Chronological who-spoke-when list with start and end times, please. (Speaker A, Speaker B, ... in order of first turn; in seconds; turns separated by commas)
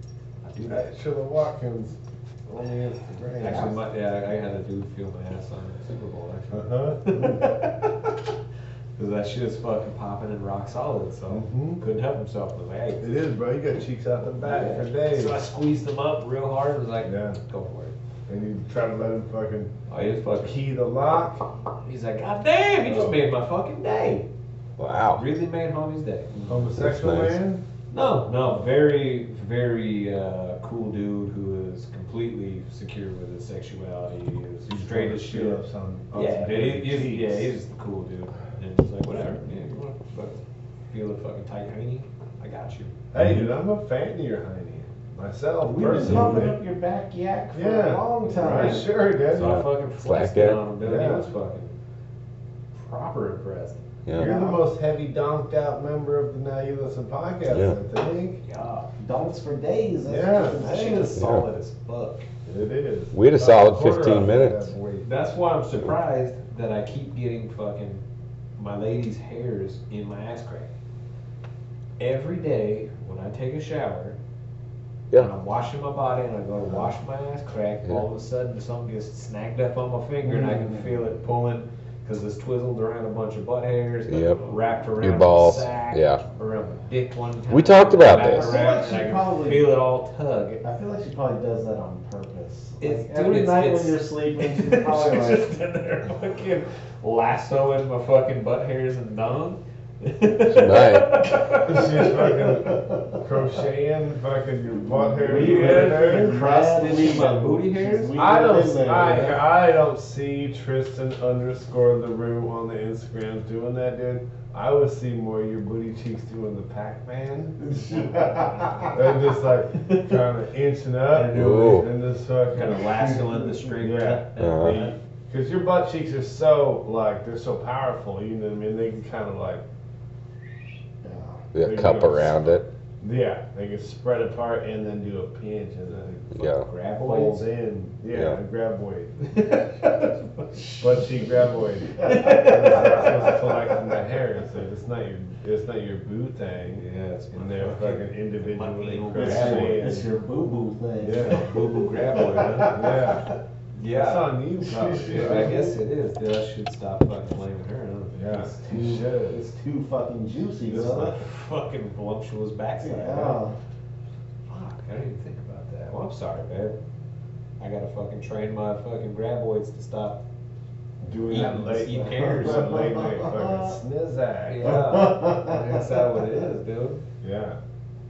Speaker A: 0.4-0.9, Speaker B: 0.7-3.8, Speaker A: 3.4-8.1, Speaker C: 3.4-3.7, Speaker B: 6.5-7.5, Speaker A: 9.0-13.1, Speaker B: 11.3-11.8, Speaker B: 13.0-15.4, Speaker A: 14.4-17.9, Speaker B: 17.0-17.4, Speaker B: 18.3-19.7, Speaker A: 19.9-20.6, Speaker B: 20.4-21.4, Speaker A: 21.9-24.3, Speaker B: 22.9-23.2, Speaker D: 24.8-25.2, Speaker A: 25.1-26.7, Speaker B: 26.5-27.6, Speaker D: 26.8-27.4, Speaker A: 27.9-35.6, Speaker B: 34.7-37.5, Speaker A: 36.1-42.9, Speaker B: 43.1-46.6, Speaker C: 45.6-48.9, Speaker B: 47.5-49.6, Speaker A: 48.4-51.8, Speaker D: 49.4-50.6, Speaker B: 50.8-51.3, Speaker A: 52.7-53.8, Speaker D: 54.1-54.3, Speaker B: 54.1-58.4, Speaker C: 54.2-54.6, Speaker D: 57.5-57.8, Speaker A: 58.4-58.9, Speaker C: 59.0-61.2, Speaker B: 60.1-60.6, Speaker A: 60.5-62.3, Speaker D: 61.2-61.5, Speaker B: 62.5-65.1, Speaker D: 63.1-64.7, Speaker A: 65.0-68.0, Speaker A: 68.6-70.7, Speaker A: 72.0-74.2, Speaker A: 75.1-90.6, Speaker D: 84.1-84.4, Speaker D: 85.0-86.2, Speaker D: 87.5-88.5, Speaker C: 88.1-89.7, Speaker C: 90.6-95.5, Speaker A: 92.8-102.5, Speaker D: 100.5-101.2, Speaker B: 101.6-106.4, Speaker C: 102.7-103.0, Speaker C: 104.9-109.4, Speaker A: 105.2-108.2, Speaker B: 108.2-123.1, Speaker A: 109.0-109.3, Speaker C: 117.6-119.0, Speaker A: 121.1-121.8, Speaker D: 121.3-121.9, Speaker A: 122.5-124.9, Speaker C: 123.2-123.5, Speaker B: 123.8-129.6, Speaker D: 124.4-124.8, Speaker C: 131.0-131.4, Speaker D: 131.5-132.7, Speaker B: 131.6-136.4, Speaker A: 136.3-137.5, Speaker D: 136.4-136.7, Speaker B: 136.9-139.4, Speaker D: 138.1-138.4, Speaker A: 139.3-140.5, Speaker B: 140.8-150.1, Speaker C: 142.0-143.3, Speaker A: 142.1-143.4, Speaker A: 146.8-150.0, Speaker C: 149.1-153.3, Speaker B: 151.0-151.6, Speaker A: 151.2-152.9, Speaker B: 152.7-153.3, Speaker A: 153.8-154.3, Speaker B: 153.9-155.7, Speaker C: 154.6-155.7, Speaker A: 155.1-158.6, Speaker B: 158.1-159.4, Speaker C: 158.6-161.2, Speaker A: 160.7-163.4, Speaker C: 162.8-163.6, Speaker A: 164.5-166.8, Speaker A: 167.6-170.2, Speaker B: 171.0-174.9, Speaker A: 171.3-172.8, Speaker C: 171.3-173.8, Speaker A: 174.5-177.0, Speaker C: 174.6-175.8, Speaker B: 177.2-177.6